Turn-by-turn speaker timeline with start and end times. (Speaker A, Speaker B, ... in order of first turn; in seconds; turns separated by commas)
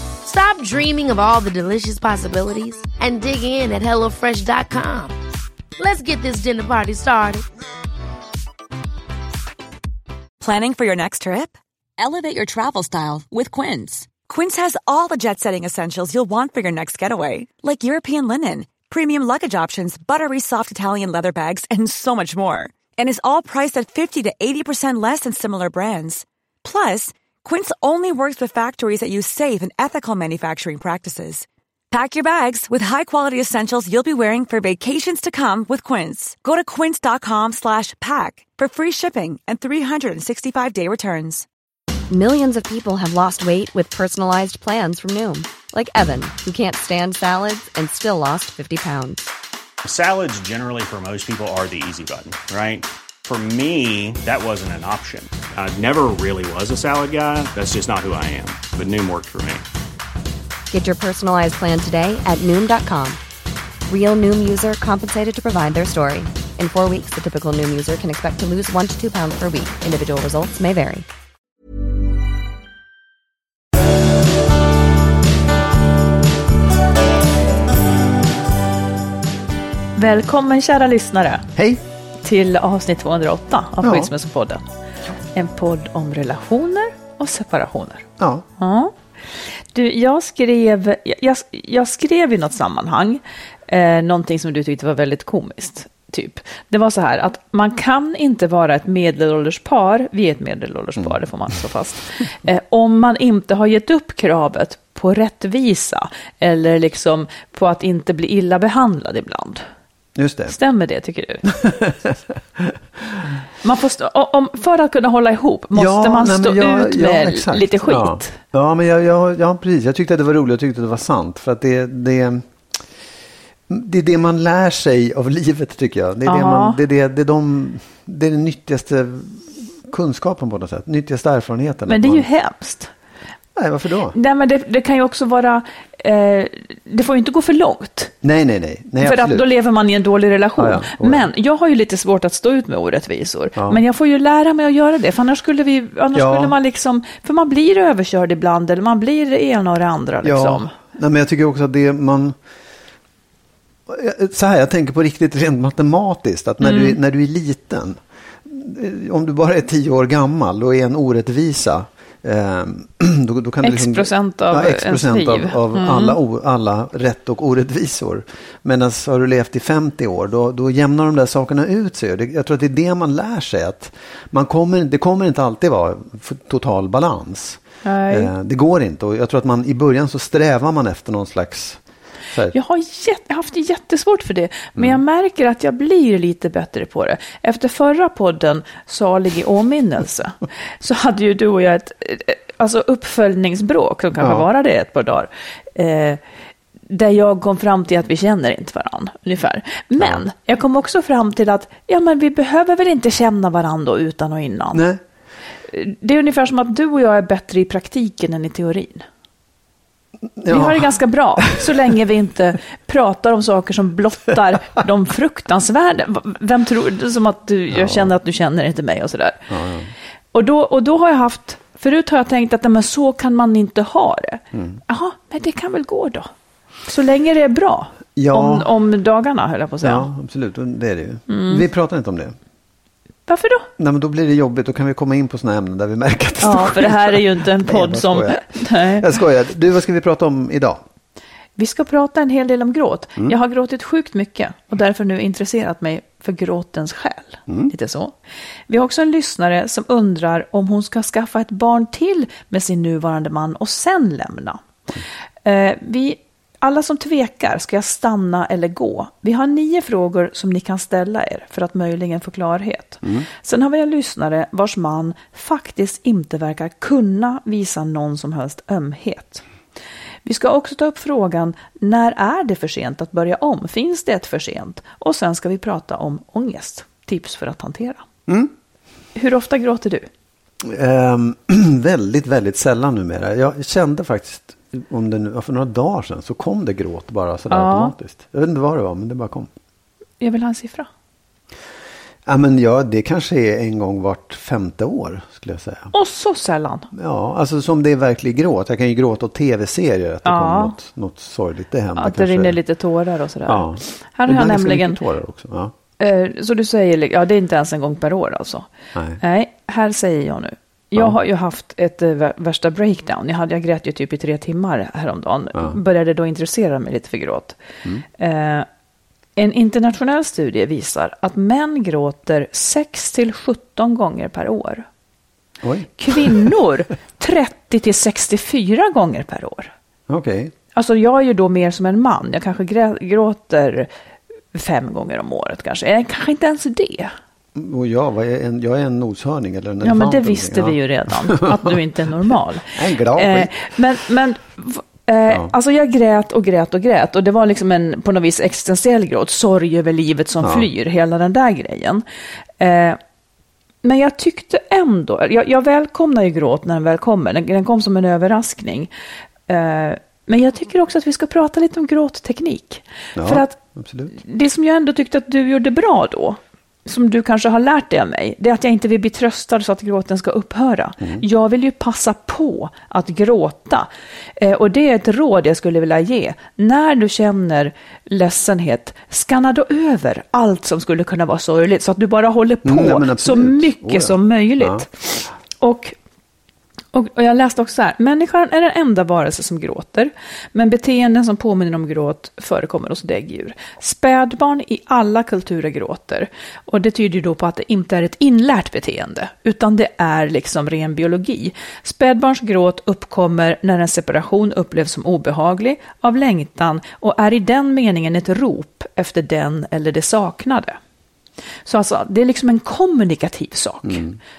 Speaker A: 0.2-5.2, Speaker A: 5.8-7.4, Speaker B: 10.4-41.5, Speaker C: 42.1-49.2, Speaker D: 49.8-59.6, Speaker C: 60.7-63.2, Speaker C: 63.9-71.0, Speaker E: 80.0-81.5, Speaker F: 81.5-81.8, Speaker E: 82.2-84.7, Speaker F: 83.8-84.1, Speaker E: 85.3-109.6, Speaker F: 88.2-88.4, Speaker F: 110.2-110.5, Speaker E: 110.5-111.5, Speaker F: 111.5-113.4, Speaker E: 113.6-118.4, Speaker F: 115.8-122.5, Speaker F: 123.7-132.2, Speaker E: 126.2-126.8, Speaker E: 131.9-132.9, Speaker F: 133.6-134.2, Speaker E: 134.1-138.1, Speaker F: 138.2-139.4, Speaker E: 139.0-150.7, Speaker F: 140.6-141.3, Speaker F: 143.6-143.8, Speaker F: 146.1-146.5, Speaker F: 150.2-152.4, Speaker F: 153.9-181.8, Speaker E: 156.6-157.0, Speaker E: 163.6-166.2, Speaker E: 177.8-178.3, Speaker E: 182.5-196.2, Speaker F: 194.2-194.4, Speaker E: 196.9-204.8, Speaker F: 204.7-205.0, Speaker E: 205.7-209.0, Speaker F: 210.4-211.7, Speaker E: 210.5-219.5, Speaker F: 217.7-218.1, Speaker F: 219.5-219.9, Speaker E: 220.3-226.3, Speaker F: 224.5-224.8, Speaker E: 226.9-230.1, Speaker F: 228.2-228.7, Speaker F: 229.8-232.3, Speaker E: 231.3-231.6, Speaker E: 233.3-233.7, Speaker F: 233.8-240.8, Speaker E: 236.4-239.1, Speaker E: 241.6-248.1, Speaker F: 247.5-247.7, Speaker E: 248.7-254.6, Speaker E: 255.4-269.4, Speaker E: 270.2-278.0, Speaker F: 278.3-278.5, Speaker E: 279.1-280.1, Speaker F: 280.6-289.5, Speaker E: 287.5-287.9, Speaker E: 290.2-290.9, Speaker F: 292.2-295.9, Speaker E: 295.9-296.9, Speaker F: 296.9-302.6, Speaker E: 300.2-300.8, Speaker E: 302.0-305.0, Speaker F: 303.4-305.7, Speaker E: 306.0-317.6, Speaker E: 318.1-318.7, Speaker E: 319.4-324.9, Speaker F: 325.6-326.5, Speaker E: 326.0-329.7, Speaker F: 330.1-330.5, Speaker E: 330.7-333.9, Speaker E: 334.5-337.1, Speaker F: 337.5-341.7, Speaker E: 339.8-352.0, Speaker F: 342.7-343.7, Speaker F: 350.4-350.7, Speaker E: 352.6-353.0, Speaker E: 353.8-358.9, Speaker E: 359.5-363.6, Speaker F: 363.1-364.1, Speaker E: 364.1-385.9, Speaker F: 382.6-384.9, Speaker E: 386.9-410.8, Speaker E: 411.6-414.0, Speaker F: 413.8-414.2